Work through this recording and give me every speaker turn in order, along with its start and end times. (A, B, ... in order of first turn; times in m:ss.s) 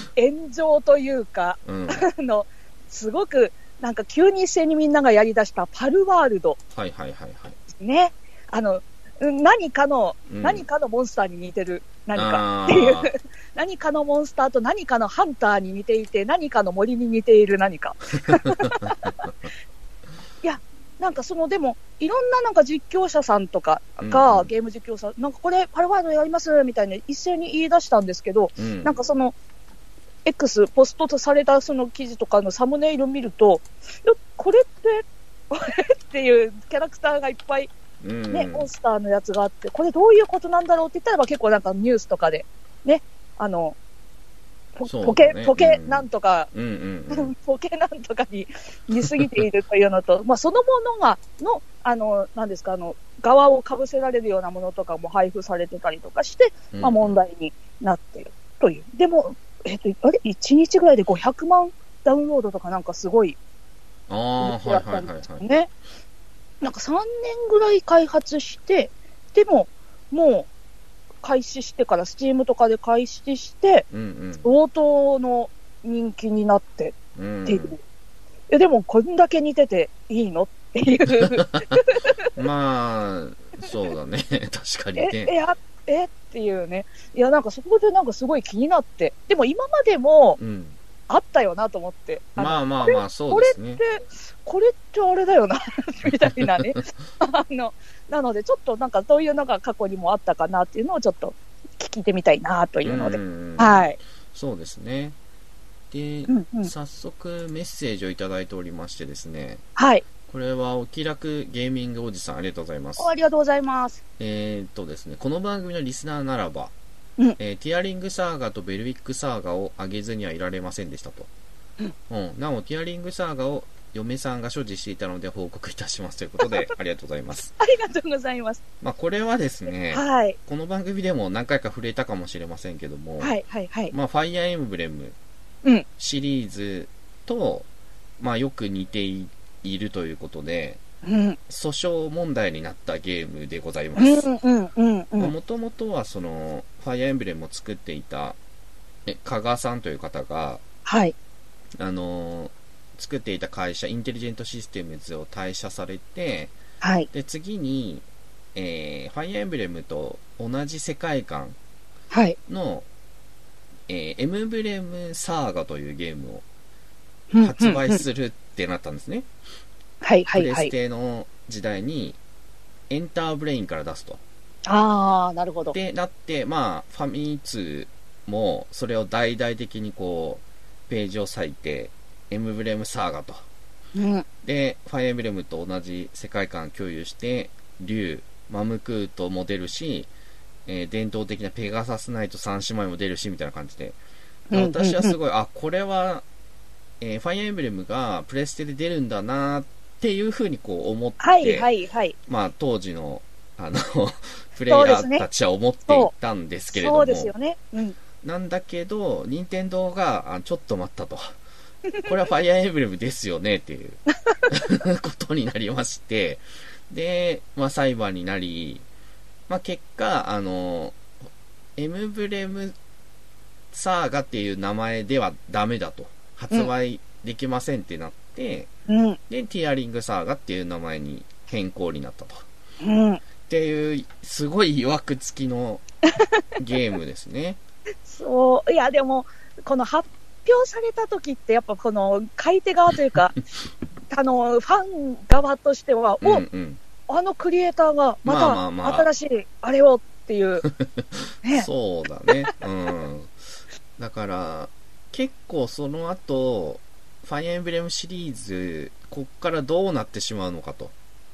0:00.2-0:06.6 A
0:01.6-0:02.0 B
0:06.7-0:07.6 B
0:07.7-0:19.1 A
0:10.3-0:10.6 B
0:12.2-0:13.1 B
0:18.5-0:19.3 B
0:20.4-0:29.3 A
0:24.0-0:24.5 B
0:28.6-0:28.9 B
0:30.2-0:37.7 A
0:38.0-0:38.7 B
0:38.3-0:43.8 A
0:44.8-0:46.5 A
0:44.8-0:47.3 B
0:47.1-1:03.4 A
0:49.0-0:49.4 B
0:56.7-0:57.2 B
1:04.1-1:05.4 B
1:04.4-1:05.7 A
1:06.6-1:10.5 A
1:11.2-1:13.8 A
1:13.9-1:14.4 B
1:14.4-1:17.8 A
1:17.1-1:17.8 B
1:18.5-1:22.3 A
1:21.3-1:21.6 B
1:22.3-1:25.3 B
1:25.0-1:30.4 A
1:30.4-1:30.8 B
1:31.1-1:44.0 A
1:32.4-1:33.8 B
1:36.0-1:36.8 B
1:42.8-1:45.2 B
1:45.9-1:49.6 B
1:46.3-1:46.7 A
1:49.8-1:50.0 A
1:50.2-1:53.1 B
1:53.0-1:54.0 A
1:54.2-1:56.7 B
1:57.4-2:01.3 B
2:02.1-2:07.5 B
2:07.6-2:08.6 A
2:08.8-2:13.3 B
2:09.9-2:10.4 A
2:13.2-2:13.9 A
2:13.9-2:15.2 B
2:16.0-2:17.7 B
2:18.2-2:20.8 B
2:21.0-2:21.4 A
2:21.5-2:24.3 B
2:24.0-2:25.3 A
2:25.2-2:28.4 B
2:29.0-2:30.6 B
2:30.8-2:31.1 A
2:31.8-2:36.5 B
2:36.8-2:37.1 A
2:37.1-2:41.6 B
2:42.1-2:42.4 A
2:42.5-2:42.8 B
2:43.9-2:46.4 B
2:47.3-2:48.0 A
2:47.4-2:49.3 B
2:50.0-2:50.7 A
2:50.3-2:52.2 B
2:52.9-2:54.2 B
2:54.6-2:55.8 A
2:55.7-3:03.4 B
3:04.0-3:04.2 A
3:04.4-3:10.1 B
3:10.6-3:14.0 B
3:14.5-3:15.2 A
3:14.5-3:16.2 B
3:17.0-3:21.7 B
3:21.2-3:22.1 A
3:22.2-3:27.3 B
3:24.7-3:25.2 A
3:25.9-3:26.1 A
3:26.7-3:28.0 A
3:28.2-3:31.3 B
3:32.0-3:38.8 B
3:39.5-3:41.0 B
3:41.8-3:42.7 B
3:43.7-3:48.7 B
3:48.9-3:49.2 A
3:49.3-3:52.4 B
3:52.8-3:53.2 A
3:53.5-3:55.8 B
3:56.6-3:57.6 B
3:58.0-4:03.4 A
4:04.1-4:06.4 A
4:06.2-4:06.8 B
4:07.1-4:10.6 A
4:08.2-4:09.1 B
4:10.6-4:13.3 B
4:14.0-4:20.9 B